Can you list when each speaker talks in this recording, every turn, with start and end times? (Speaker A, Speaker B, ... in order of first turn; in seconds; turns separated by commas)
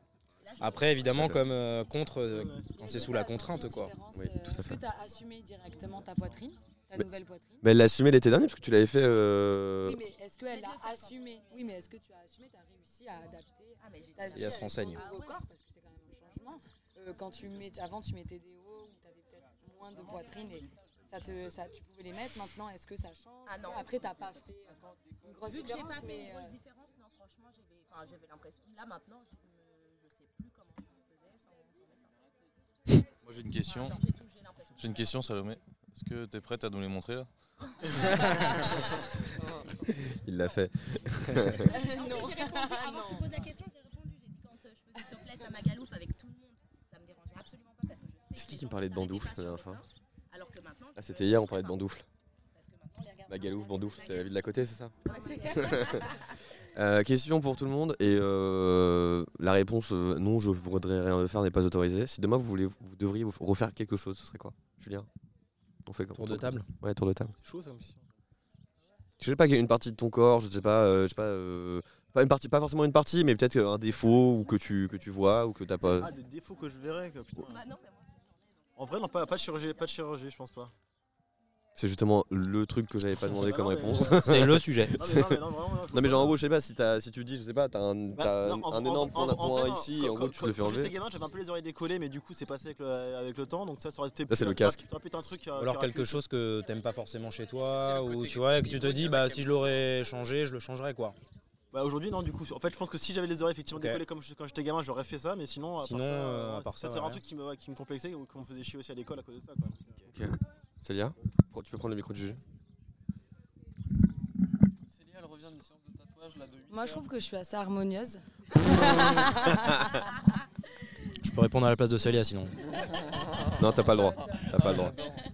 Speaker A: 0.4-1.7, Speaker B: 0.6-3.9, Speaker C: 1.0-1.4, Speaker D: 2.3-2.8, Speaker E: 2.8-7.6, Speaker C: 4.1-4.8, Speaker C: 7.6-10.0, Speaker E: 9.8-26.6, Speaker A: 10.4-11.5, Speaker A: 13.8-15.4, Speaker B: 14.3-15.0, Speaker A: 23.4-24.1, Speaker A: 25.4-32.1, Speaker F: 33.2-34.0, Speaker A: 33.6-35.2, Speaker F: 34.8-37.3, Speaker A: 37.8-39.6, Speaker C: 40.1-41.7, Speaker A: 40.4-51.9, Speaker E: 41.6-43.3, Speaker C: 48.3-49.8, Speaker C: 51.0-52.0, Speaker A: 52.5-56.4, Speaker C: 53.3-55.0, Speaker C: 55.5-56.1, Speaker C: 56.7-65.1, Speaker C: 65.8-67.3, Speaker B: 66.1-66.7, Speaker D: 67.4-68.0, Speaker C: 69.2-76.1, Speaker D: 76.0-77.6, Speaker A: 77.4-78.3, Speaker D: 78.8-80.7, Speaker A: 78.8-79.4, Speaker C: 81.8-90.9, Speaker D: 83.3-86.4, Speaker B: 84.1-85.0, Speaker D: 88.1-96.2, Speaker C: 94.3-94.8, Speaker B: 95.6-101.2, Speaker G: 97.8-99.8, Speaker D: 101.7-110.0, Speaker B: 103.7-104.0, Speaker B: 105.8-107.2, Speaker C: 110.1-112.4, Speaker G: 114.9-117.0, Speaker E: 116.7-119.9, Speaker B: 121.2-122.6, Speaker C: 123.6-124.9, Speaker E: 123.9-124.6